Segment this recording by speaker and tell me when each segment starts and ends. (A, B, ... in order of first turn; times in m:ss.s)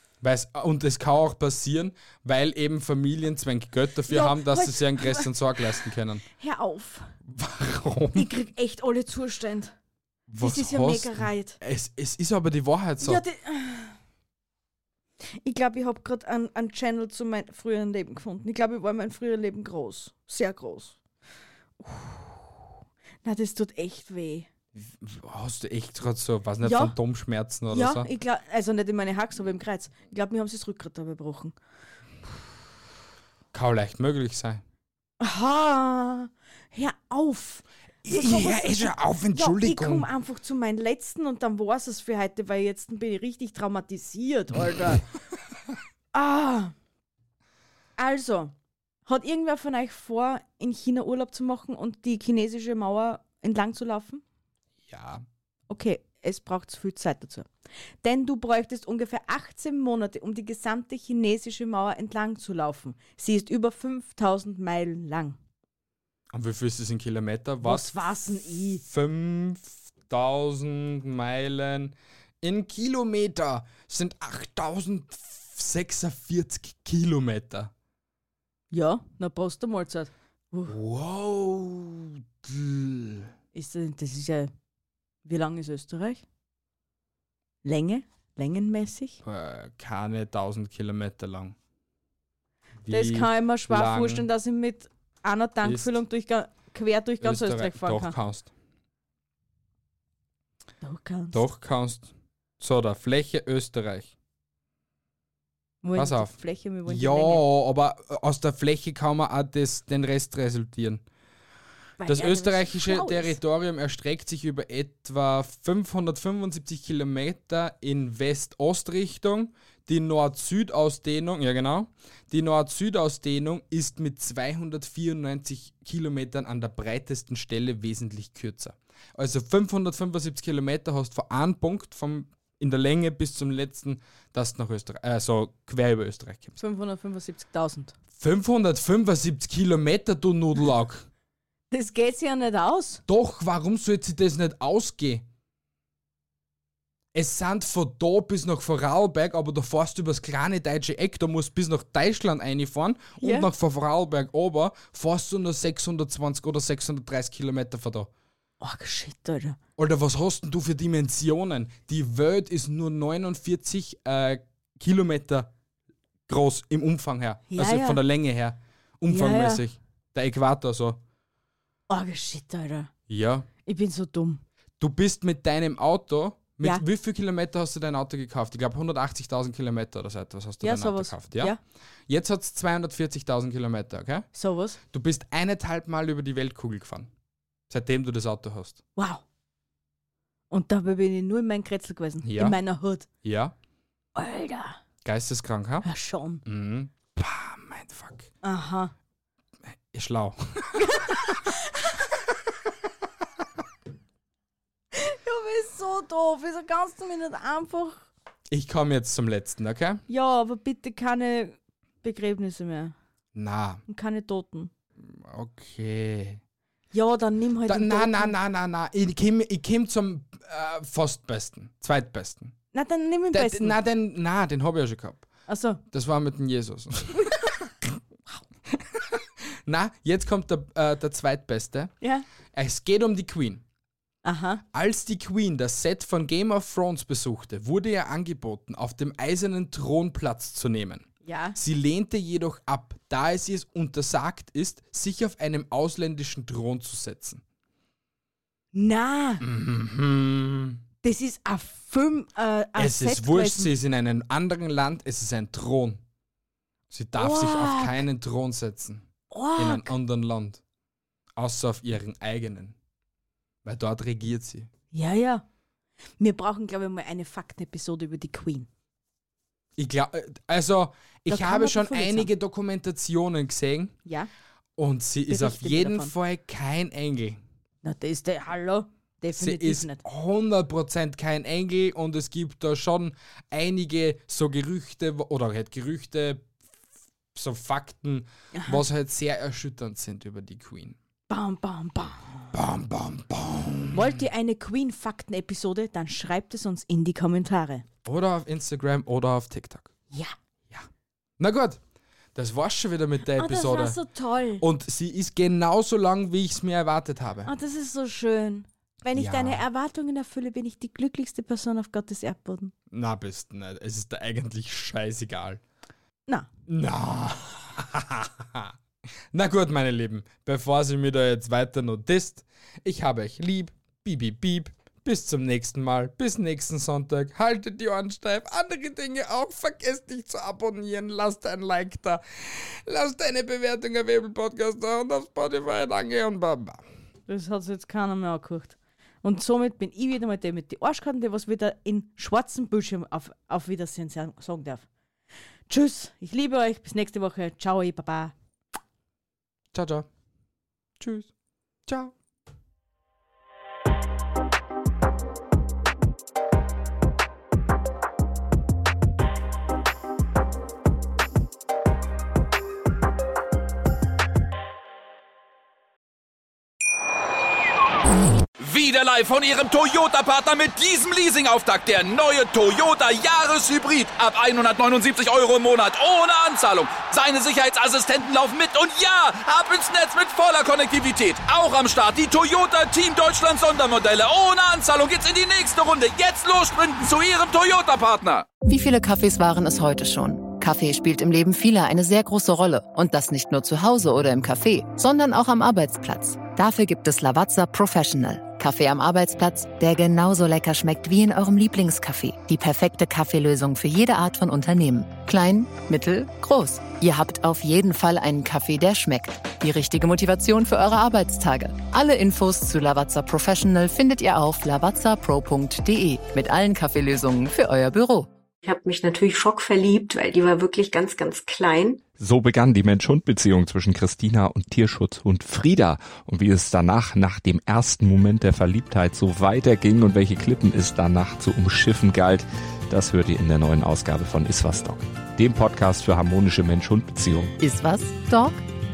0:00.2-0:06.2 A
0:04.1-0:05.6 B
0:06.3-0:07.2 B
0:07.2-0:08.3 A
0:08.1-0:09.8 B
0:10.3-0:13.2 A
0:10.4-0:11.6 B
0:13.0-0:14.0 B
0:15.4-0:21.0 B
0:21.8-0:22.6 B
0:23.2-0:24.5 B
0:24.8-0:28.1 A
0:26.6-0:27.0 B
0:27.7-0:31.6 B
0:33.5-0:34.6 A
0:35.2-0:45.1 B
0:38.0-0:40.1 A
0:46.1-0:46.7 B
0:48.0-0:48.5 B
0:49.1-0:54.2 B
0:54.9-0:55.2 A
0:55.7-0:57.5 B
0:58.0-1:05.4 B
1:06.3-1:08.0 A
1:07.6-1:08.8 B
1:08.6-1:17.7 A
1:18.7-1:20.7 B
1:20.7-1:23.3 A
1:23.5-1:24.5 B
1:25.3-1:26.2 B
1:27.6-1:29.2 B
1:29.2-1:31.6 A
1:32.8-1:34.3 A
1:32.9-1:38.1 B
1:35.6-1:36.0 A
1:37.2-1:38.5 A
1:40.8-1:41.4 B
1:41.3-1:44.1 A
1:45.8-1:47.4 B
1:46.0-1:51.0 A
1:52.0-1:53.4 B
1:52.0-2:16.6 A
2:16.6-2:18.0 B
2:18.2-2:21.1 A
2:21.7-2:23.0 B
2:23.1-2:25.2 A
2:27.1-2:38.1 A
2:33.2-2:33.5 B
2:38.6-2:39.6 B
2:39.8-2:45.5 A
2:46.3-2:51.0 A
2:47.5-2:48.0 B
2:49.1-2:49.6 B
2:51.9-2:52.9 B
2:53.1-2:53.5 A
2:53.6-2:54.4 B
2:54.8-3:01.6 A
3:00.6-3:01.6 B
3:02.1-3:04.3 A
3:04.3-3:04.8 B
3:04.9-3:07.1 A
3:07.7-3:08.8 A
3:09.0-3:09.2 B
3:10.5-3:13.1 B
3:12.2-3:12.6 A
3:13.2-3:13.5 A
3:14.2-3:14.8 B
3:15.0-3:15.9 A
3:15.8-3:16.4 B
3:16.4-3:18.3 A
3:18.4-3:18.9 B
3:19.9-3:21.5 A
3:20.7-3:22.0 B
3:24.9-3:28.1 B
3:28.5-3:30.0 A
3:30.1-3:32.9 B
3:33.4-3:33.8 A
3:33.9-3:34.7 B
3:35.0-3:36.4 A
3:36.9-3:38.3 B
3:37.7-3:42.6 A
3:42.7-3:43.8 B
3:43.3-3:45.3 A
3:45.5-3:45.8 B
3:45.9-3:48.0 A
3:47.2-3:47.6 B
3:48.7-3:51.9 A
3:52.5-3:53.6 A
3:54.2-3:54.6 B
3:54.7-4:07.4 A
4:01.2-4:01.6 B
4:08.7-4:09.4 B
4:09.4-4:10.8 A
4:11.0-4:13.7 B
4:12.8-4:16.0 A
4:16.9-4:20.6 A
4:17.2-4:18.0 B
4:19.3-4:19.9 B
4:21.4-4:22.8 A
4:23.6-4:24.7 A
4:24.9-4:25.4 B
4:26.2-4:28.7 B
4:29.8-4:34.0 A
4:31.3-4:32.3 B
4:34.8-4:37.4 A
4:35.3-4:36.1 B
4:37.8-4:40.0 B
4:39.3-4:46.5 A
4:47.3-4:51.0 A
4:48.5-4:48.8 B
4:51.3-4:52.5 B
4:52.5-4:54.2 A
4:53.9-4:57.8 B
4:58.0-4:59.9 A
5:01.4-5:01.8 A
5:02.4-5:04.0 A
5:03.4-5:04.6 B
5:04.6-5:07.5 A
5:07.4-5:12.7 B
5:09.1-5:09.6 A
5:12.9-5:15.6 A
5:16.7-5:18.7 A
5:19.3-5:36.8 A
5:37.3-5:44.8 B
5:45.7-5:48.3 B
5:49.7-5:50.1 A
5:51.0-5:51.3 A
5:51.9-5:52.1 A
6:08.6-6:28.4 C
6:28.7-6:58.3 D
6:58.6-7:02.1 E
7:02.2-7:17.6 F
7:17.6-7:18.6 D